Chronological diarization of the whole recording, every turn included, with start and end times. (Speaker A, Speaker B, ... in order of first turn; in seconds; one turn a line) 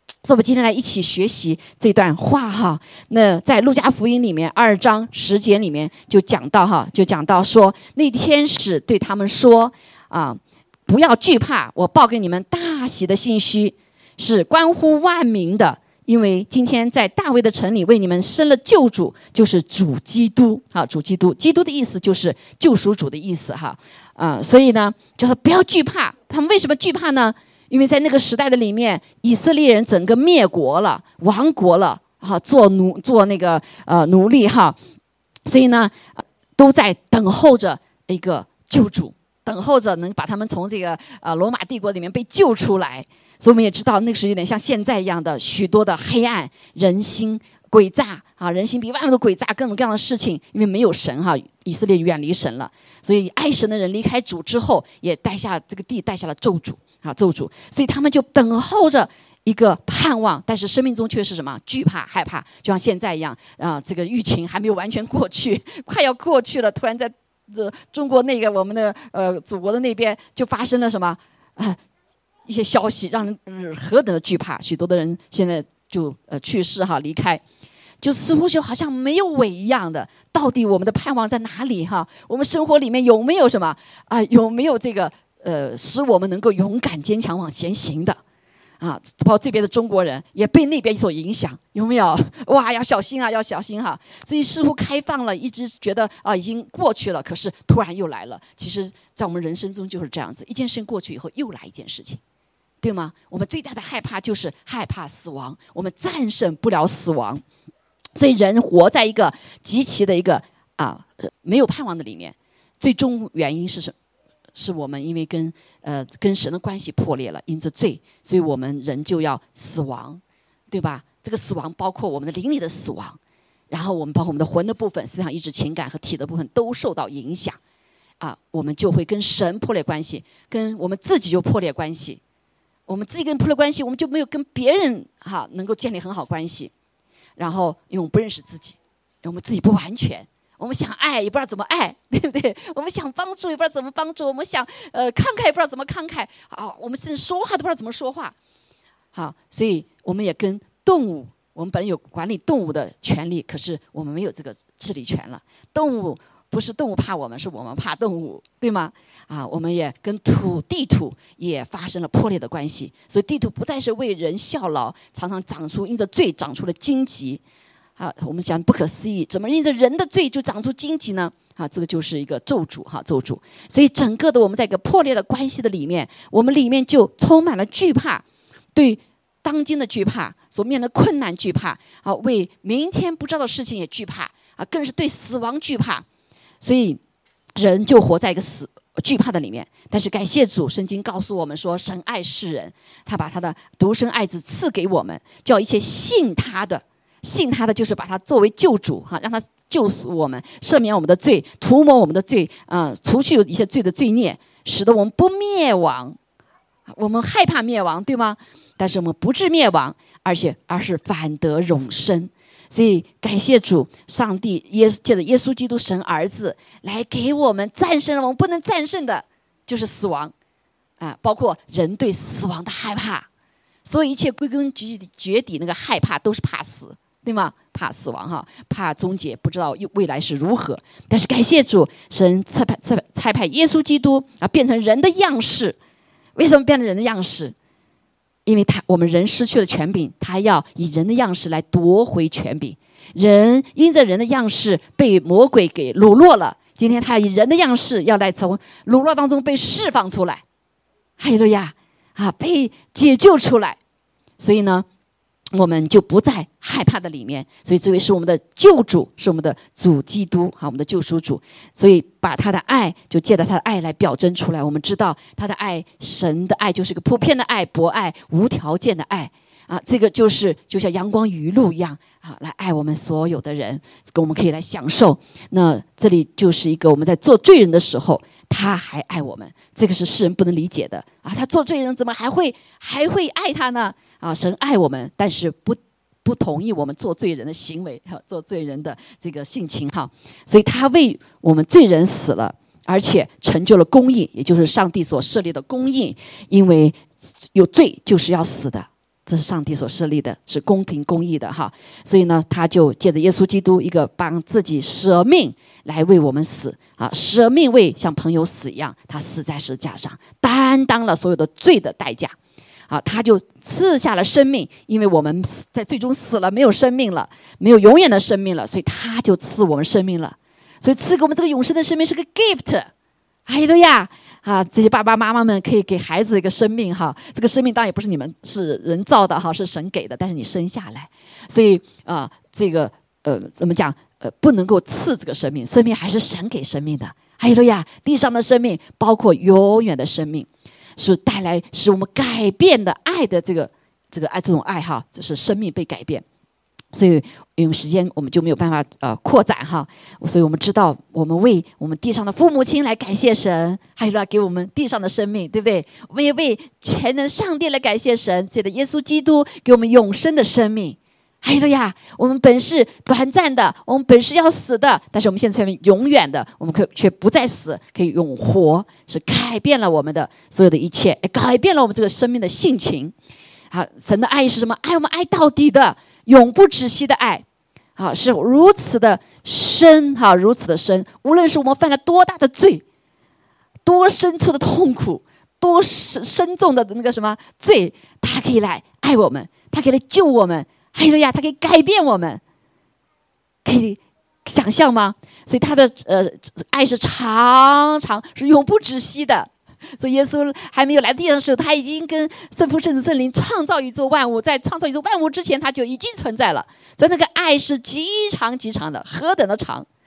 Speaker A: 0.2-34.8
Speaker A: 35.5-71.8
Speaker A: 72.5-77.4
Speaker A: 78.0-88.2
Speaker A: 88.8-102.2
Speaker A: 102.8-107.4
Speaker A: 108.2-113.9
Speaker A: 114.5-123.2
Speaker A: 123.7-127.6
Speaker A: 128.2-132.2
Speaker A: 132.9-136.7
Speaker A: 137.4-148.3
Speaker A: 149.1-167.4
Speaker A: 168.0-186.0
Speaker A: 186.6-187.0
Speaker A: 187.6-206.2
Speaker A: 206.9-220.3
Speaker A: 221.0-223.2
Speaker A: 223.8-235.8
Speaker A: 236.3-237.5
Speaker A: 238.4-250.4
Speaker A: 251.2-253.8
Speaker A: 254.4-254.8
Speaker A: 255.5-297.0
Speaker A: 297.5-312.4
Speaker A: 312.9-322.9
Speaker A: 323.4-346.2
Speaker A: 346.9-373.1
Speaker A: 373.7-377.4
Speaker A: 378.0-382.8
Speaker A: 383.8-392.4
Speaker A: 393.6-409.9